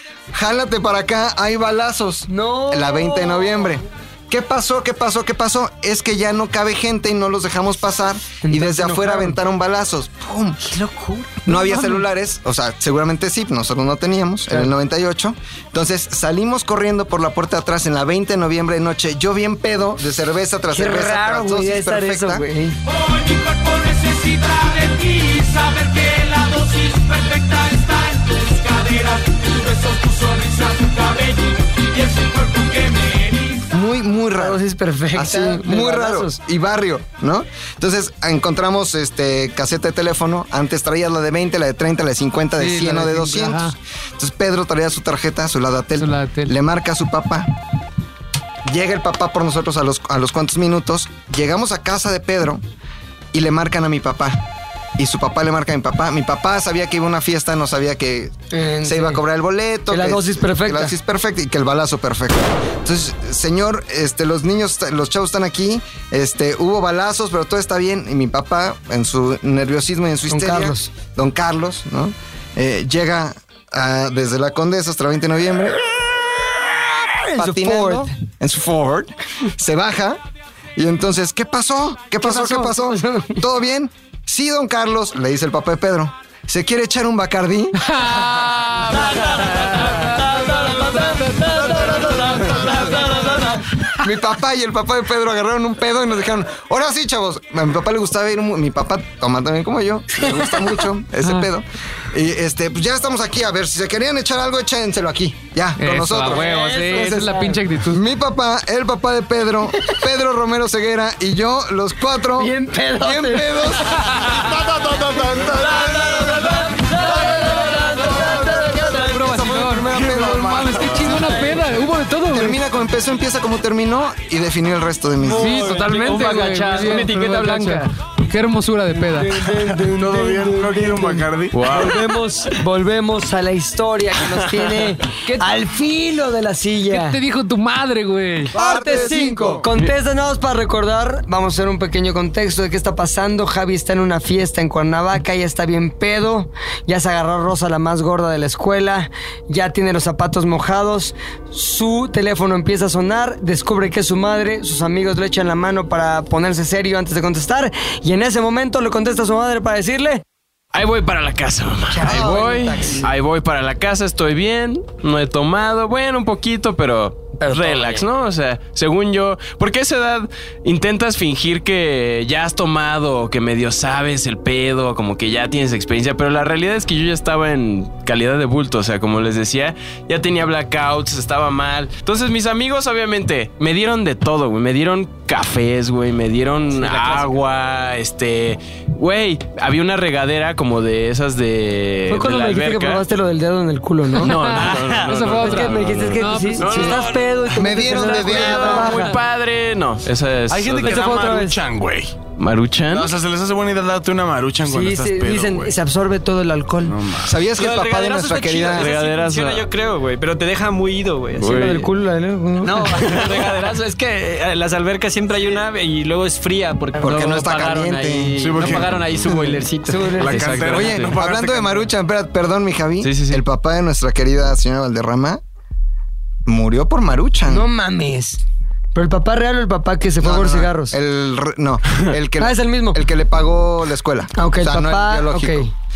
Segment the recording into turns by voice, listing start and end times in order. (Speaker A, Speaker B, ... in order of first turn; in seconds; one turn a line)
Speaker A: 0.3-10.7
Speaker B: 2.3-3.7
Speaker B: 8.4-9.4
Speaker B: 10.7-11.5
Speaker A: 11.5-22.5
Speaker C: 11.5-12.0
Speaker B: 20.7-22.8
Speaker A: 33.7-34.6
Speaker B: 34.4-36.4
Speaker A: 35.1-47.5
Speaker C: 42.6-43.8
Speaker C: 46.0-46.5
Speaker A: 48.6-52.6
Speaker A: 53.3-54.4
Speaker A: 55.0-76.2
Speaker B: 58.5-59.2
Speaker B: 59.9-61.0
Speaker B: 70.3-70.9
Speaker B: 77.1-78.1
Speaker A: 77.3-80.2
Speaker A: 80.8-87.9
Speaker B: 82.2-83.4
Speaker C: 87.8-92.2
Speaker B: 88.9-93.7
Speaker A: 91.4-93.2
Speaker A: 94.0-121.6
Speaker C: 105.8-108.0
Speaker B: 106.3-107.6
Speaker B: 112.4-113.8
Speaker D: 114.3-116.6
Speaker B: 115.6-119.7
Speaker C: 118.9-122.6
Speaker A: 122.3-125.7
Speaker E: 125.2-127.9
Speaker C: 125.3-129.3
Speaker B: 129.1-137.2
Speaker D: 129.4-131.9
Speaker F: 131.5-132.0
Speaker C: 135.2-135.6
Speaker C: 136.9-138.6
Speaker A: 138.5-139.7
Speaker B: 138.5-160.2
Speaker D: 138.9-139.6
Speaker F: 160.7-193.1
Speaker B: 161.9-163.1
Speaker A: 162.0-163.0
Speaker B: 167.4-168.1
Speaker E: 186.8-187.3
Speaker B: 192.1-194.6
Speaker F: 194.2-197.3
Speaker C: 194.2-197.0
Speaker B: 195.3-199.2
Speaker A: 197.5-198.9
Speaker F: 198.1-201.1
Speaker D: 200.5-202.2
Speaker B: 200.8-201.6
Speaker F: 202.4-203.1
Speaker D: 202.9-205.7
Speaker B: 204.6-207.0
Speaker D: 206.8-207.3
Speaker A: 207.2-208.9
Speaker E: 207.6-211.8
Speaker F: 208.7-209.7
Speaker F: 211.4-211.8
Speaker B: 211.4-213.2
Speaker E: 212.6-220.7
Speaker A: 217.0-218.5
Speaker D: 218.4-219.4
Speaker B: 219.9-220.6
Speaker D: 220.2-221.9
Speaker F: 220.3-221.1
Speaker A: 220.7-225.4
Speaker F: 223.0-223.4
Speaker A: 226.5-227.7
Speaker B: 227.5-228.4
Speaker B: 228.9-231.0
Speaker A: 230.2-235.7
Speaker B: 232.4-233.0
Speaker B: 234.3-235.7